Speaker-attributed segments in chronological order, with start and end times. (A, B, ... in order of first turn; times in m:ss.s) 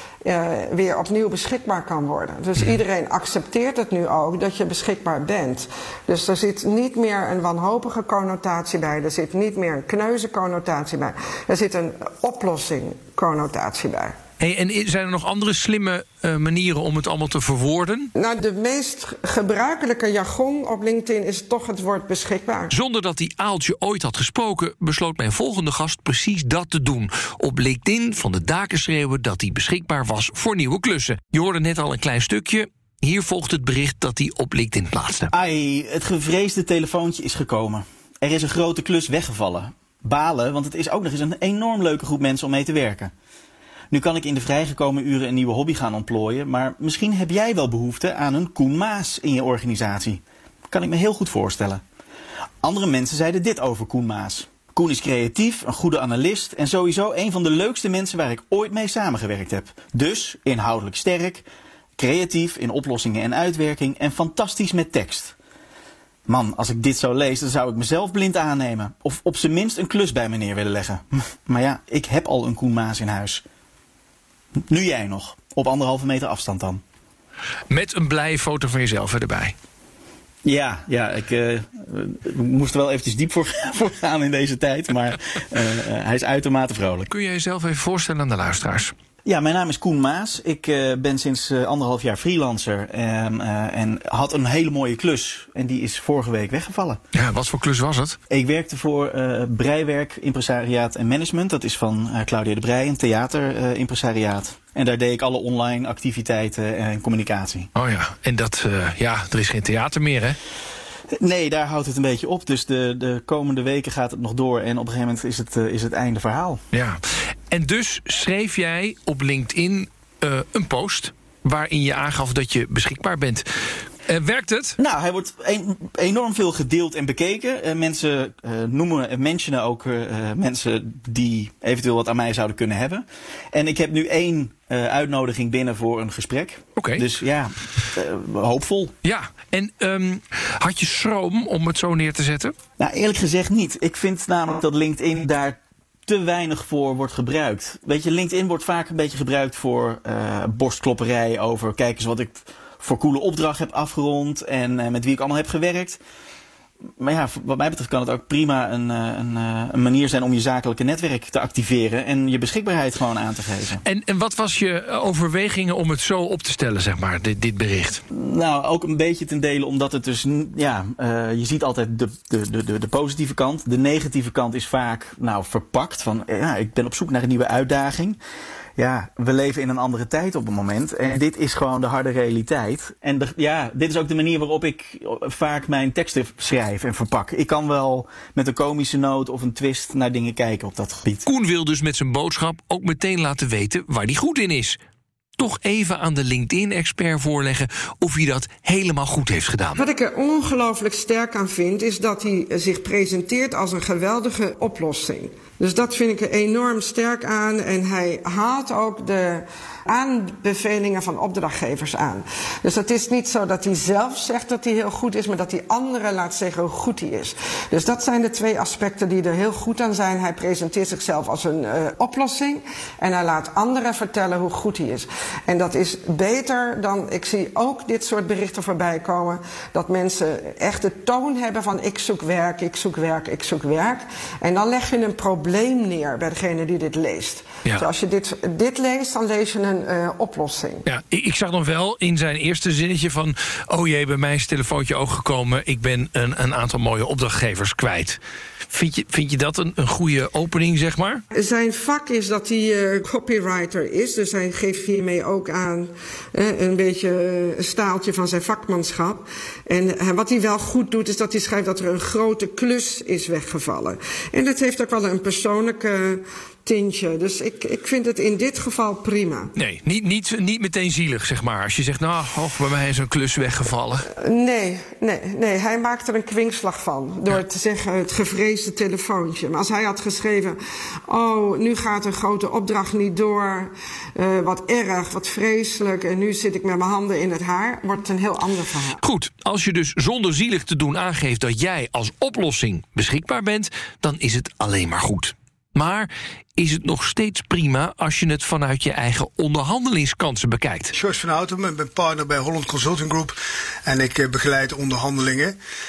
0:00.2-0:14.2 A
0:14.4-0:18.1 B
0:18.2-0:22.7 A
0:22.7-0:35.3 B
0:35.3-0:43.1 C
0:43.9-0:51.8 C
0:52.6-1:01.5 C
1:02.0-1:05.4 C
1:06.3-1:13.4 C
1:14.7-1:16.8 C
1:17.7-1:19.6 B
1:20.4-1:27.1 C
1:27.1-1:28.9 B
1:29.2-1:37.0 C
1:37.1-1:38.2 B
1:38.3-1:47.7 C
1:47.8-1:50.4 B
1:51.2-1:56.6 C
1:56.7-2:03.4 B
2:04.1-2:04.8 B
2:04.8-2:18.9 C
2:16.8-2:17.0 B
2:19.0-2:22.6 B
2:22.8-2:36.0 C
2:37.0-2:43.8 C
2:43.8-2:48.0 B
2:48.1-2:58.2 C
2:58.8-3:11.2 C
3:11.3-3:14.8 B
3:15.4-3:19.8 B
3:19.8-4:00.8 A
4:00.9-4:08.2 B
4:08.7-4:11.2 B
4:11.3-4:29.5 A
4:29.6-4:34.1 B
4:34.1-4:40.6 A
4:41.1-4:49.0 A
4:49.0-5:00.9 B
5:00.9-5:05.6 D